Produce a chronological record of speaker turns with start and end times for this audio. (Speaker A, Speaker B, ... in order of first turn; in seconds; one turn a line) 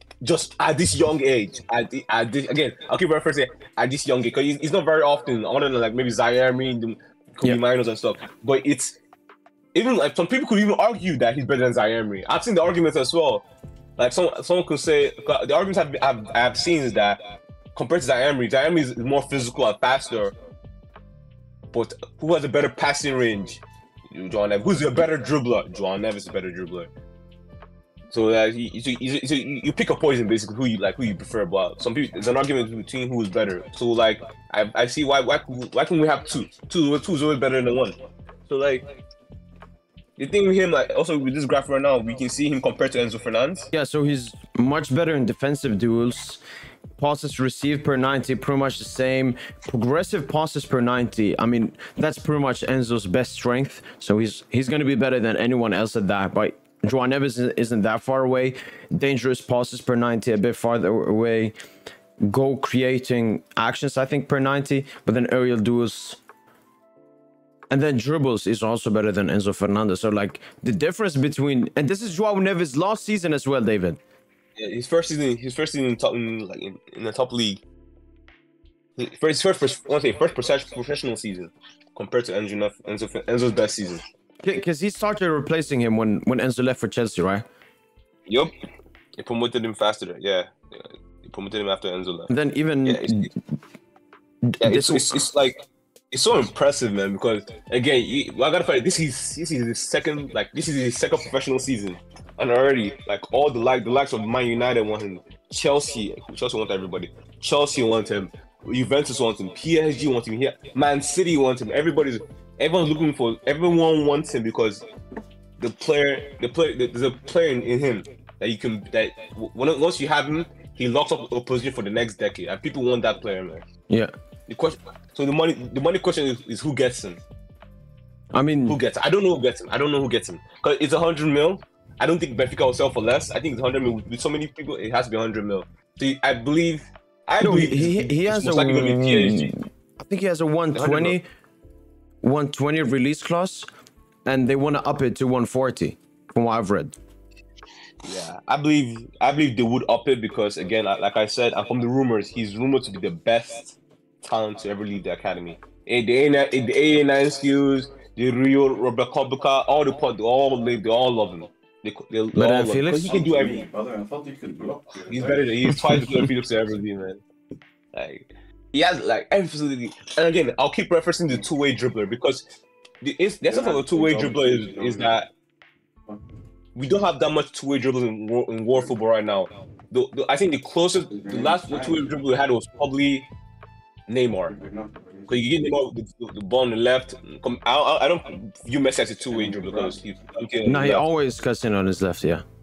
Speaker A: 0.2-9.0
Speaker A: 9.7-13.4
Speaker A: 14.0-17.2
Speaker A: 17.8-20.3
Speaker A: 21.7-26.9
Speaker A: 28.1-38.0
Speaker A: 38.5-38.9
Speaker A: 40.2-43.7
Speaker B: 43.7-46.4
Speaker B: 47.0-61.5
Speaker B: 62.2-66.2
Speaker B: 67.7-74.0
Speaker A: 74.6-77.6
Speaker A: 79.0-84.0
Speaker B: 84.4-87.5
Speaker A: 88.3-88.5
Speaker A: 89.2-92.3
Speaker B: 92.3-93.3
Speaker A: 92.8-93.3
Speaker B: 94.5-95.3
Speaker A: 94.6-114.8
Speaker A: 115.6-123.7
Speaker A: 124.5-127.2
Speaker B: 128.3-128.8
Speaker A: 128.7-139.5
Speaker B: 137.4-141.2
Speaker A: 140.7-141.2
Speaker B: 142.2-143.7
Speaker B: 144.3-146.9
Speaker A: 148.0-163.6
Speaker B: 162.3-163.2
Speaker C: 163.1-165.8
Speaker A: 165.1-167.2
Speaker B: 165.9-166.2
Speaker A: 167.9-172.4
Speaker A: 173.0-175.3
Speaker C: 173.4-175.2
Speaker A: 176.7-183.3
Speaker C: 181.1-182.1
Speaker A: 184.1-184.6
Speaker C: 184.5-185.5
Speaker A: 185.3-191.1
Speaker C: 189.3-190.0
Speaker B: 190.7-192.4